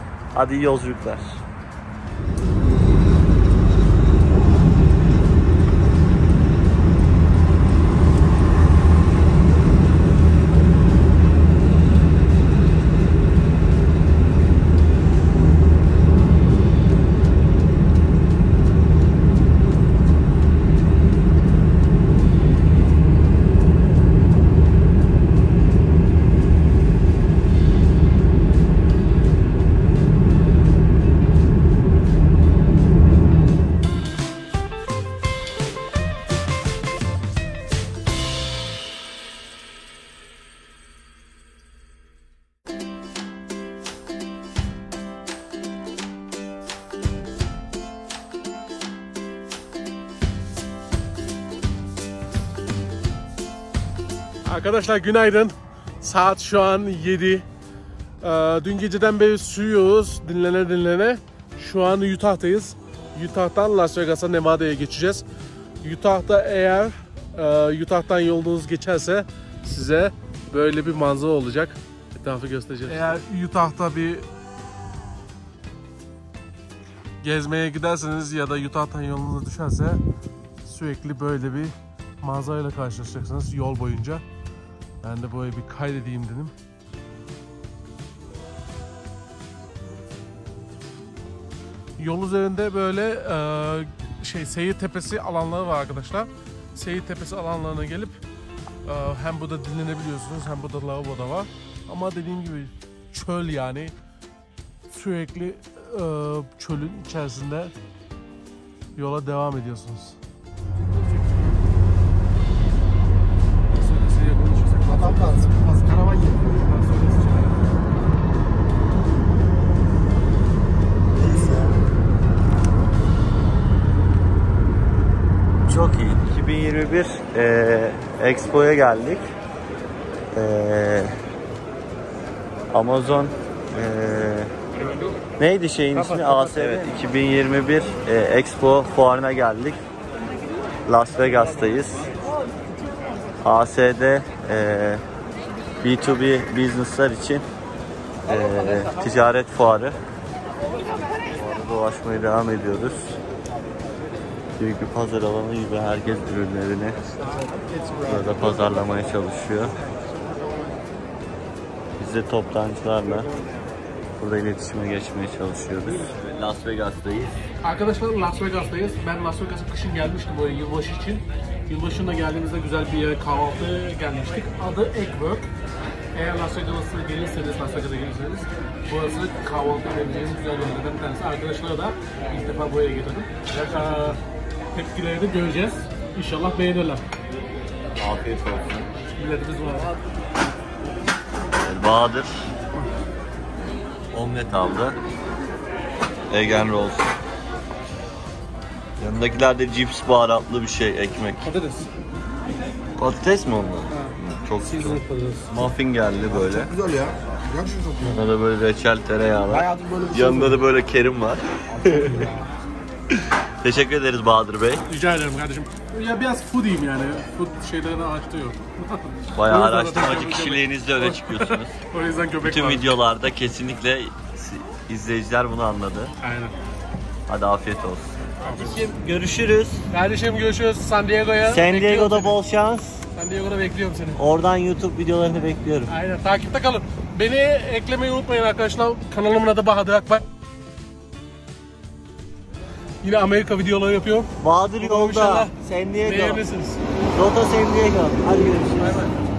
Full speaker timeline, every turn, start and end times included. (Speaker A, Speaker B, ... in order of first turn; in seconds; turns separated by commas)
Speaker A: 0.3-1.4, Speaker B: 54.5-57.5, Speaker B: 58.2-65.2, Speaker B: 65.8-74.3, Speaker B: 77.2-80.0, Speaker B: 80.6-84.2, Speaker B: 85.0-86.5, Speaker B: 92.0-98.2, Speaker B: 98.8-103.9, Speaker B: 104.9-107.7, Speaker B: 109.0-110.2, Speaker B: 110.8-111.5, Speaker B: 113.7-115.5, Speaker C: 114.8-116.7, Speaker B: 116.6-117.6, Speaker C: 121.1-121.8, Speaker A: 125.7-129.2, Speaker A: 130.3-131.2, Speaker A: 132.7-134.5, Speaker A: 135.4-139.8, Speaker C: 135.9-137.0, Speaker A: 140.9-142.1, Speaker A: 143.4-145.0, Speaker A: 145.8-147.5, Speaker A: 148.2-150.0, Speaker A: 151.3-153.2, Speaker A: 154.6-157.0, Speaker C: 157.2-158.1, Speaker A: 158.1-159.8, Speaker A: 162.0-163.3, Speaker A: 164.2-167.4, Speaker B: 167.6-175.5, Speaker B: 176.1-184.2, Speaker B: 184.7-187.1, Speaker A: 188.0-188.9, Speaker B: 189.2-189.9, Speaker A: 191.6-192.5, Speaker A: 194.1-195.0, Speaker A: 196.3-197.1, Speaker A: 199.0-201.5, Speaker B: 201.4-201.9, Speaker A: 203.0-206.7, Speaker B: 203.9-205.5, Speaker C: 206.3-208.2, Speaker A: 208.1-212.3, Speaker C: 209.5-210.6, Speaker C: 211.7-212.3, Speaker A: 213.1-214.8, Speaker B: 214.9-222.8, Speaker A: 219.3-221.8, Speaker A: 222.4-226.1, Speaker B: 226.2-226.5, Speaker A: 227.3-229.8, Speaker B: 228.4-228.8, Speaker B: 229.9-232.4, Speaker A: 231.4-233.0, Speaker B: 233.1-234.2, Speaker A: 234.2-235.9, Speaker B: 235.9-240.2, Speaker B: 243.0-245.5, Speaker A: 244.4-246.4, Speaker B: 246.1-246.8, Speaker A: 247.1-249.1, Speaker B: 248.8-249.1